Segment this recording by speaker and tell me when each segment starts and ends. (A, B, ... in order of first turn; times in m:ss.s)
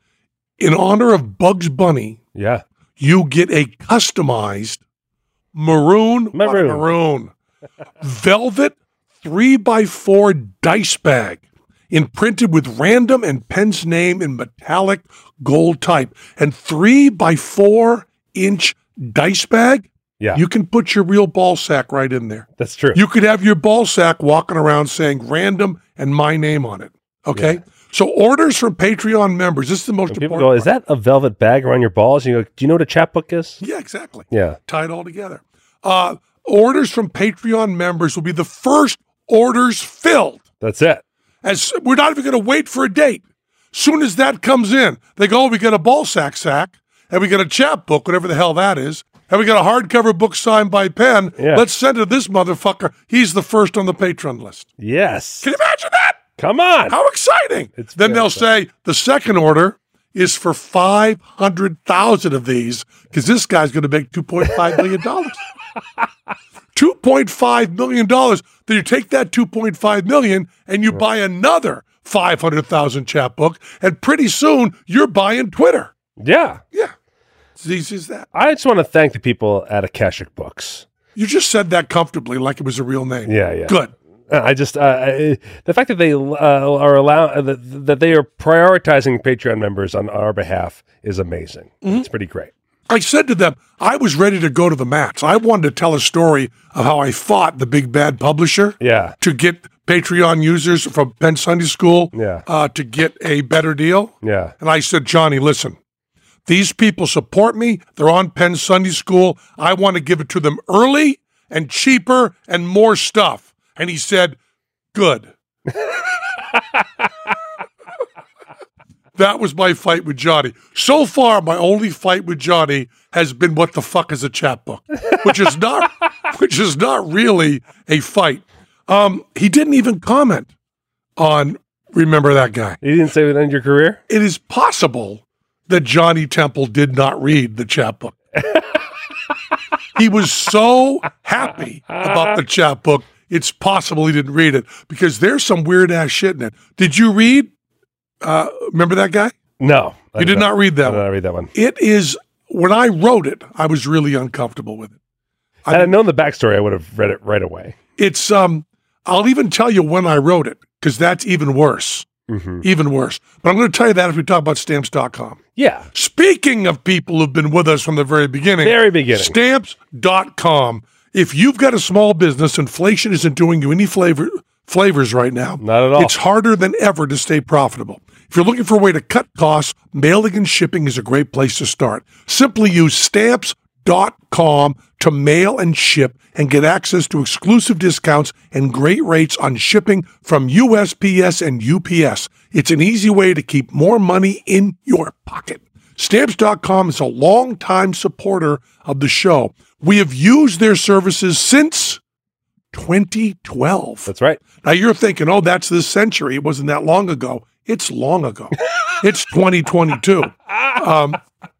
0:00.6-0:02.2 A
0:02.4-0:02.6 B
0:03.0-0:04.8 A
0:05.5-0:07.3 A
0:06.3-0:06.9 B
0:08.0-0:30.7 A
0:22.6-0:23.0 B
0:30.1-0:33.6 B
0:33.6-0:40.4 A
0:34.3-0:34.6 B
0:40.6-0:41.0 B
0:41.4-0:54.7 A
0:51.4-0:51.6 B
0:54.8-0:55.5 B
0:55.4-0:56.2 A
0:56.4-0:57.0 B
0:56.9-1:05.4 A
0:57.8-0:58.4 B
1:06.8-1:15.9 A
1:16.2-1:16.6 B
1:17.6-1:18.3 A
1:18.3-1:20.8 B
1:21.2-1:23.9 A
1:23.3-1:23.8 B
1:24.3-1:32.5 B
1:32.9-1:45.8 A
1:38.8-1:39.2 B
1:42.1-1:42.4 B
1:44.2-1:44.5 B
1:46.5-1:54.4 A
1:54.9-1:55.3 A
1:59.2-2:10.5 A
2:11.2-2:12.8 A
2:12.8-2:14.0 B
2:14.1-2:18.2 A
2:20.0-2:27.5 A
2:28.2-2:29.3 A
2:29.6-2:31.5 B
2:30.2-2:35.0 A
2:35.7-2:35.9 A
2:35.7-2:37.8 B
2:38.0-2:42.1 A
2:42.3-2:42.6 B
2:42.6-2:45.4 A
2:45.6-2:45.9 B
2:45.9-3:22.0 A
2:48.6-2:49.4 B
2:55.6-2:56.1 B
3:22.7-3:31.2 A
3:24.1-3:24.4 B